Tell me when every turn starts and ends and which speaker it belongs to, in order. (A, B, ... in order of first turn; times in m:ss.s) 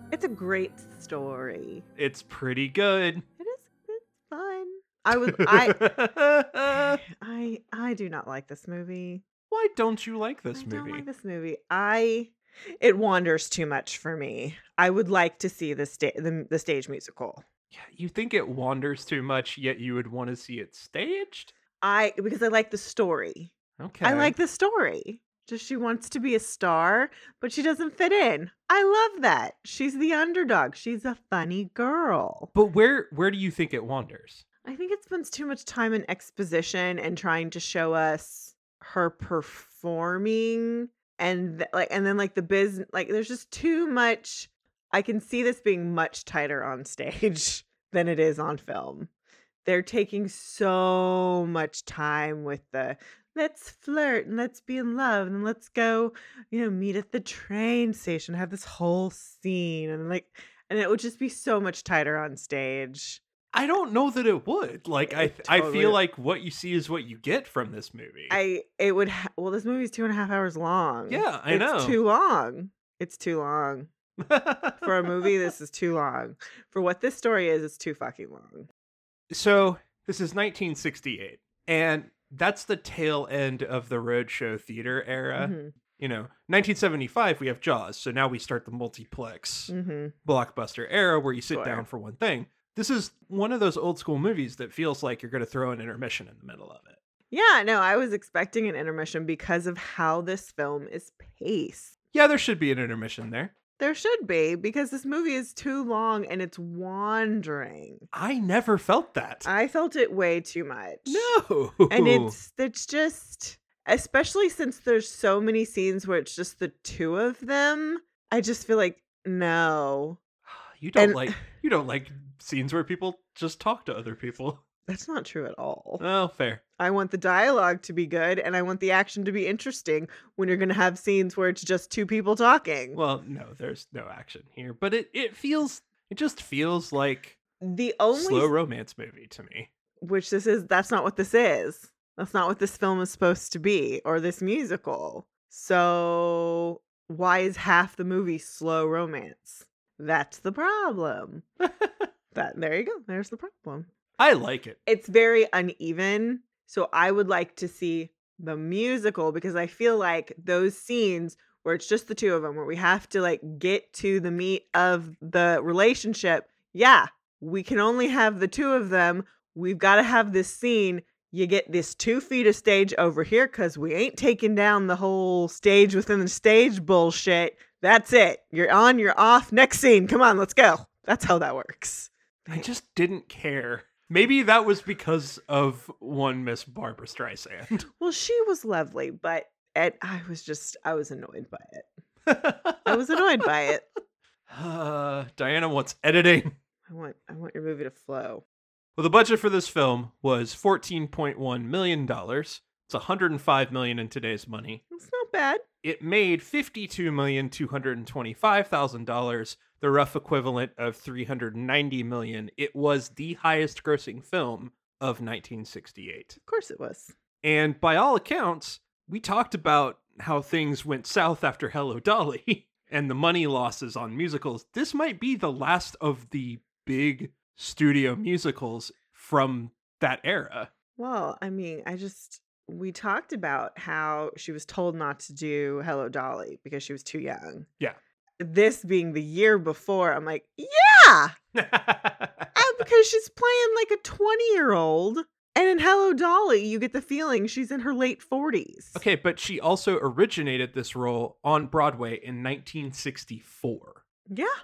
0:00.1-0:01.8 A
0:02.0-0:03.2 B
0:03.4-0:05.9 A
0:05.2-0:07.0 B
0:06.7-0:09.2 A
0:09.5-0:11.1 B
0:10.5-0:17.4 A
0:17.7-0:21.5 B
0:21.8-0:32.5 A
0:23.8-0:24.4 B
0:32.5-0:34.4 B
0:34.6-0:49.1 A
0:49.6-1:03.2 A
1:03.5-1:08.4 B
1:05.1-1:06.0 A
1:08.3-1:13.9 A
1:11.1-1:12.0 B
1:14.2-1:15.3 B
1:14.8-1:18.7 A
1:19.3-1:29.7 B
1:25.4-1:25.7 A
1:29.7-1:30.1 A
1:30.2-1:37.0 B
1:31.5-1:31.8 A
1:37.3-1:41.9 A
1:42.1-1:43.5 B
1:43.8-1:48.1 A
1:48.1-1:49.5 B
1:49.4-1:51.3 A
1:51.1-1:52.4 B
1:51.9-2:00.2 A
2:00.4-2:04.6 B
2:01.0-2:01.4 A
2:04.9-2:06.0 A
2:06.0-2:06.6 B
2:06.8-2:13.0 A
2:12.9-2:17.4 B
2:17.6-2:18.5 A
2:18.1-2:19.7 B
2:20.0-2:31.4 A
2:32.3-2:33.9 A
2:34.2-2:34.8 B
2:34.9-3:02.7 A
3:02.5-3:07.9 B
3:08.0-3:11.9 A
3:12.3-3:13.5 B
3:12.8-3:13.8 A
3:14.5-3:16.6 B
3:16.9-3:18.4 A
3:19.0-3:24.8 B
3:24.9-3:25.6 A
3:25.8-3:36.4 B
3:36.4-3:37.1 A
3:37.4-3:50.7 B
3:51.0-3:57.7 A
3:58.4-4:01.4 A
4:01.5-4:02.5 B
4:02.6-4:09.0 A
4:09.0-4:14.0 B